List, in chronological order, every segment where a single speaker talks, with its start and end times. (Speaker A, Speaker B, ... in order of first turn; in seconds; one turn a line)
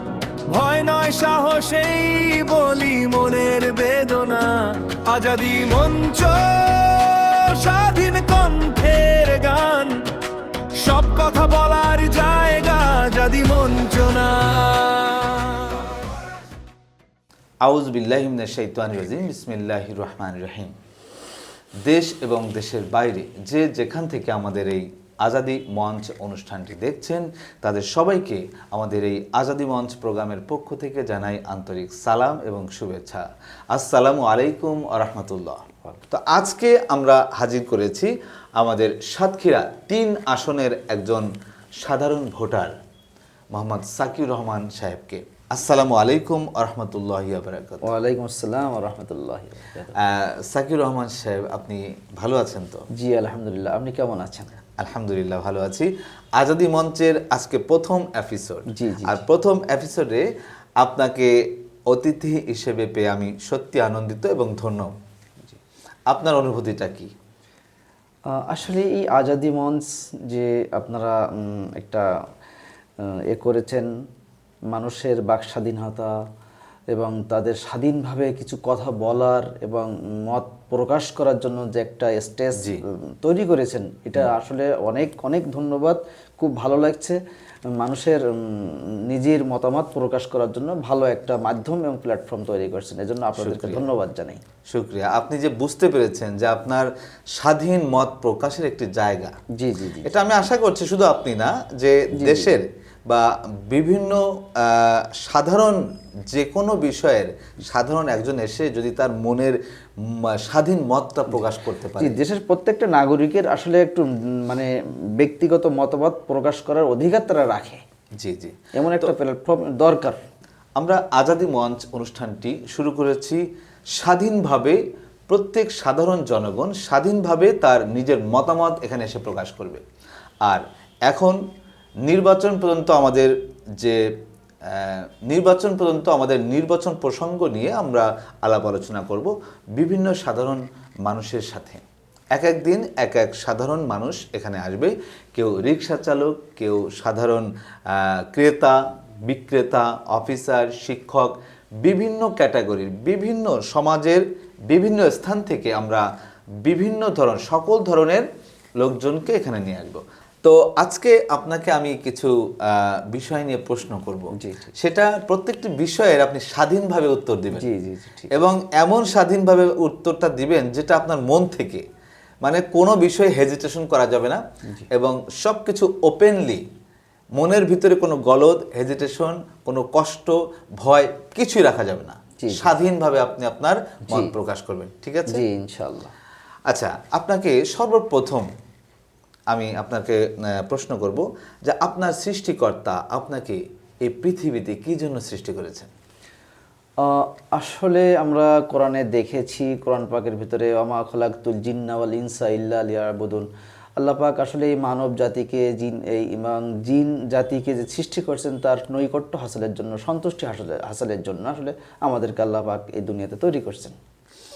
Speaker A: 0.5-10.1
Speaker A: 10.7-16.1
Speaker B: 17.6-20.8
Speaker B: 21.8-41.3
Speaker B: 41.8-42.7
Speaker B: 43.5-47.9
Speaker C: 47.8-50.0
Speaker B: 50.0-52.9
Speaker C: 52.9-54.5
Speaker B: 54.8-60.3
Speaker C: 58.7-59.2
Speaker B: 60.8-61.4
Speaker B: 61.9-64.9
Speaker B: 66.1-67.1
Speaker C: 68.3-72.1
Speaker C: 73.0-73.9
Speaker C: 74.7-76.2
Speaker C: 76.9-87.2
Speaker C: 87.8-94.4
Speaker B: 93.4-93.8
Speaker B: 94.7-99.4
Speaker C: 99.6-100.1
Speaker B: 100.0-112.2
Speaker C: 102.1-102.5
Speaker C: 112.0-117.8
Speaker B: 118.2-119.1
Speaker C: 118.8-120.2
Speaker B: 120.8-123.4
Speaker B: 124.0-129.8
Speaker B: 130.4-131.4
Speaker B: 132.1-134.0
Speaker B: 134.6-141.8
Speaker B: 142.3-156.1
Speaker B: 156.6-158.3
Speaker B: 158.8-167.7
Speaker C: 164.3-164.7
Speaker C: 167.6-168.3
Speaker B: 168.3-171.8
Speaker B: 172.4-176.7
Speaker B: 177.4-185.4
Speaker C: 182.4-182.7
Speaker C: 185.3-186.1
Speaker B: 186.7-188.5
Speaker B: 189.5-195.9
Speaker C: 197.0-203.5
Speaker C: 204.0-214.0